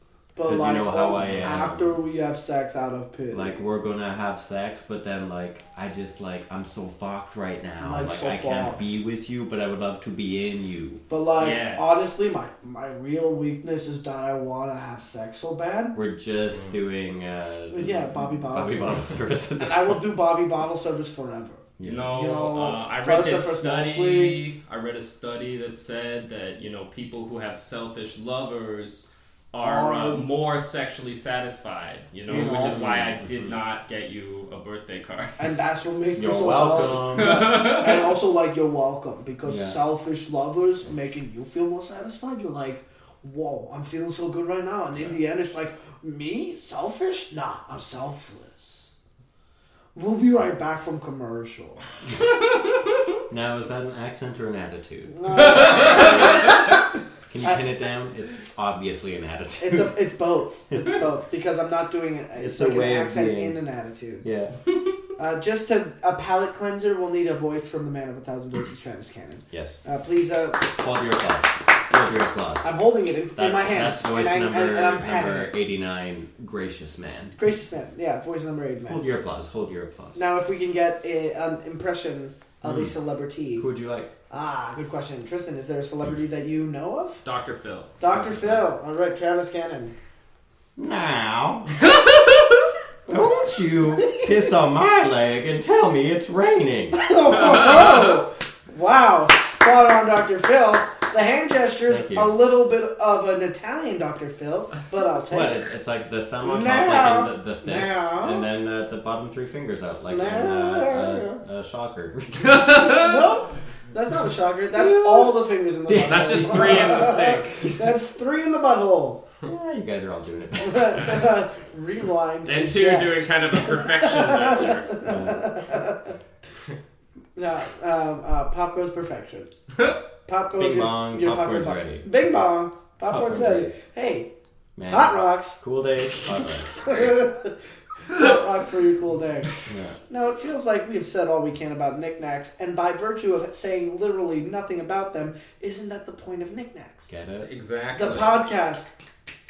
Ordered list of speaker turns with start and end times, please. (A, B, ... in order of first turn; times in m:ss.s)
0:00.4-0:03.6 A
0:00.4-0:02.0 B
0:01.2-0:01.7 C
0:03.3-0:11.0 B
0:07.8-0:08.8 A
0:11.1-0:16.0 A
0:11.4-0:11.8 C
0:15.9-0:20.1 B
0:17.7-0:19.0 A
0:19.6-0:24.4 A
0:21.8-0:22.2 B
0:21.8-0:35.5 C
0:29.6-0:30.3 A
0:32.3-0:33.6 B
0:35.4-0:48.9 A
0:36.2-0:37.6 B
0:37.2-0:38.2 C
0:39.5-0:39.8 B
0:50.0-0:51.8 A
0:53.3-0:56.6 B
0:55.2-0:56.5 A
0:57.3-0:59.9 B
0:59.6-1:04.2 A
1:00.7-1:01.0 B
1:02.4-1:03.6 B
1:04.2-1:04.6 B
1:05.2-1:10.7 A
1:09.5-1:09.8 B
1:10.6-1:12.7 B
1:12.6-1:15.5 A
1:13.4-1:17.4 B
1:17.4-1:19.0 A
1:18.9-1:20.2 B
1:20.2-1:23.7 A
1:22.6-1:22.9 B
1:23.6-1:24.1 B
1:24.3-1:27.2 A
1:27.2-1:27.9 C
1:28.0-1:29.9 A
1:28.1-1:28.7 B
1:30.8-1:31.7 B
1:31.8-1:32.7 C
1:33.1-1:37.1 B
1:36.9-1:45.6 A
1:37.3-1:38.2 C
1:41.9-1:42.3 B
1:45.3-1:52.9 B
1:46.4-1:48.5 A
1:50.1-1:51.4 A
1:52.4-1:53.2 C
1:52.7-1:59.2 A
1:54.7-1:57.9 B
1:56.1-1:57.6 C
1:59.4-2:01.3 B
2:00.6-2:06.2 A
2:02.4-2:05.0 C
2:05.0-2:05.5 B
2:07.4-2:09.5 A
2:10.3-2:14.3 A
2:10.6-2:12.1 B
2:13.1-2:13.7 B
2:14.8-2:17.2 B
2:14.9-2:15.6 A
2:16.8-2:17.5 A
2:18.1-2:19.5 A
2:19.7-2:20.0 B
2:20.1-2:27.1 A
2:27.1-2:27.5 B
2:27.4-2:28.4 C
2:28.0-2:28.9 A